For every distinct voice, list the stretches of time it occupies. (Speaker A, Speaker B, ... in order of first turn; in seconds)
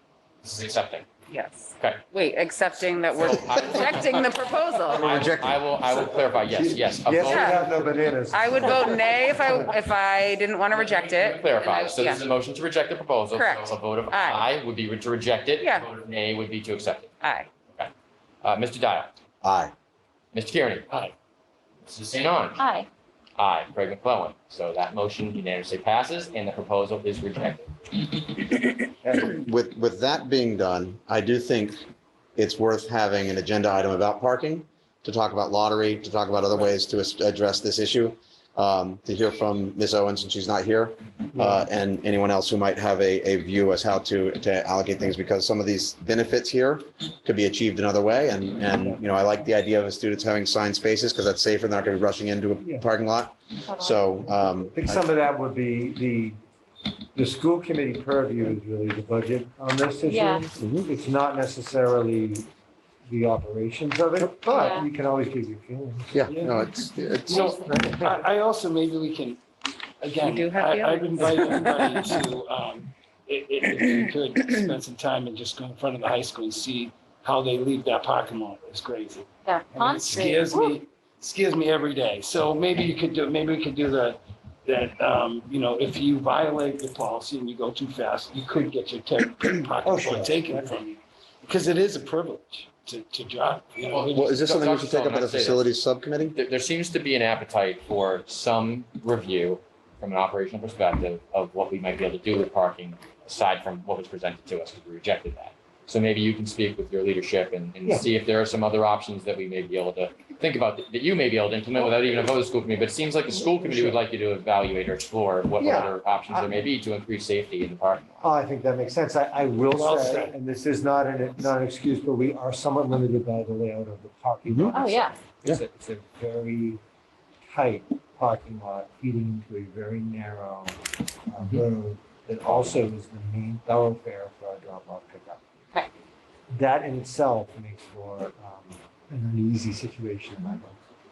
Speaker A: 0.4-1.1, 3.2-4.3, 4.9-7.5, 10.7-17.1, 18.4-19.1, 20.3-21.0, 21.9-22.6, 23.4-27.7, 93.9-95.7, 96.3-118.2
Speaker B: 1.3-5.1, 7.2-7.6, 8.3-12.2, 13.3-14.4, 15.6-15.9, 17.2-17.5, 70.2-72.1
Speaker C: 4.9-5.6, 19.4-19.7, 29.0-31.8, 32.4-55.0, 66.1-67.5, 94.1-96.3, 124.5-124.7
Speaker D: 6.6-9.6, 41.3-41.7, 48.7-49.0, 54.7-56.4, 57.1-62.5, 63.1-66.3, 67.3-68.2, 89.8-90.7, 113.4-114.0, 115.6-116.5, 118.2-126.8, 127.4-135.4, 136.5-140.8
Speaker E: 22.6-22.9, 53.6-54.0, 60.0-60.4, 64.5-64.9, 67.3-68.0, 79.4-80.8, 124.7-125.2
Speaker F: 66.3-66.6, 67.3-69.4, 70.0-94.4, 119.7-120.3